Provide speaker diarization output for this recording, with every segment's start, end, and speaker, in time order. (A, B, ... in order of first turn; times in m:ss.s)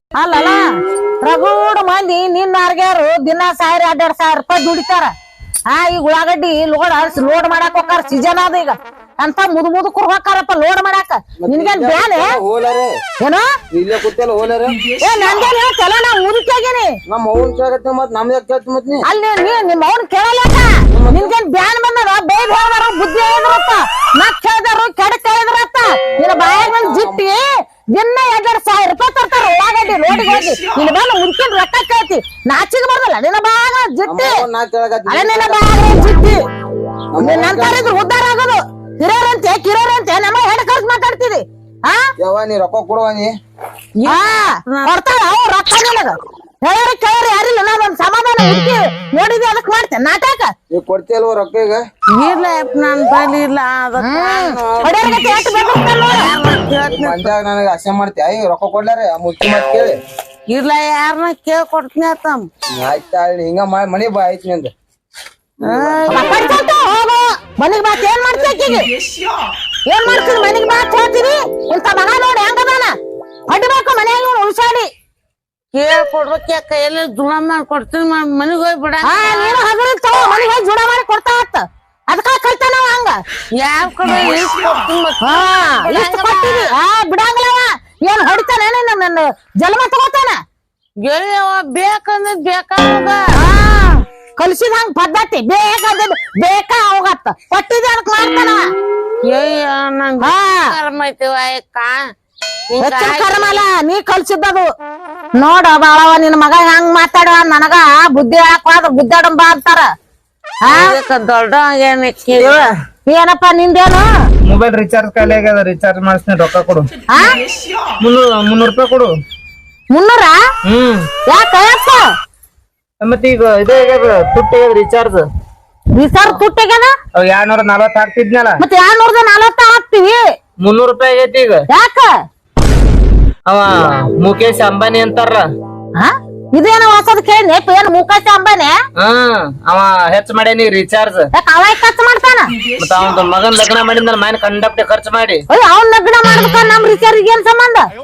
0:00.2-0:00.6 A
0:01.2-0:05.1 A
0:05.7-0:12.4 A
0:11.4-0:13.0 B
0:13.7-0:14.8 B
0:15.0-0:16.9 A
0:17.1-0:19.0 B
0:19.0-0:34.4 A
0:20.9-0:21.3 B
0:26.3-0:27.2 B
0:34.0-0:35.9 B
0:35.1-0:36.4 A
0:37.1-0:37.9 B
0:37.2-0:42.1 A
0:42.2-0:43.3 B
0:44.0-0:44.9 C
0:44.1-0:50.5 A
0:50.7-0:51.8 B
0:52.2-0:57.3 C
0:54.0-0:56.2 A
0:56.8-1:00.0 B
1:00.5-1:02.4 C
1:02.7-1:04.7 B
1:05.6-1:06.2 B
1:05.6-1:06.4 C
1:06.1-1:08.8 A
1:09.9-1:12.9 A
1:13.5-1:14.9 A
1:15.7-1:19.6 C
1:19.0-1:23.2 A
1:23.6-1:26.7 C
1:25.2-1:30.4 A
1:31.0-1:33.2 C
1:33.4-1:38.6 A
1:39.3-1:42.0 C
1:40.2-1:40.7 A
1:42.7-1:43.6 C
1:42.8-1:44.7 A
1:45.4-1:49.9 A
1:50.7-1:52.6 C
1:52.4-1:52.7 D
1:53.1-1:54.0 A
1:54.4-1:56.9 D
1:58.0-1:59.1 D
1:59.9-2:00.4 A
2:00.7-2:01.1 D
2:01.3-2:02.0 A
2:03.0-2:05.2 D
2:06.0-2:06.9 A
2:07.1-2:08.6 D
2:08.6-2:10.2 A
2:10.6-2:11.6 D
2:11.7-2:12.1 A
2:13.5-2:15.4 D
2:16.0-2:18.7 A
2:19.0-2:21.3 D
2:21.3-2:22.5 A
2:22.8-2:25.4 D
2:25.5-2:27.8 A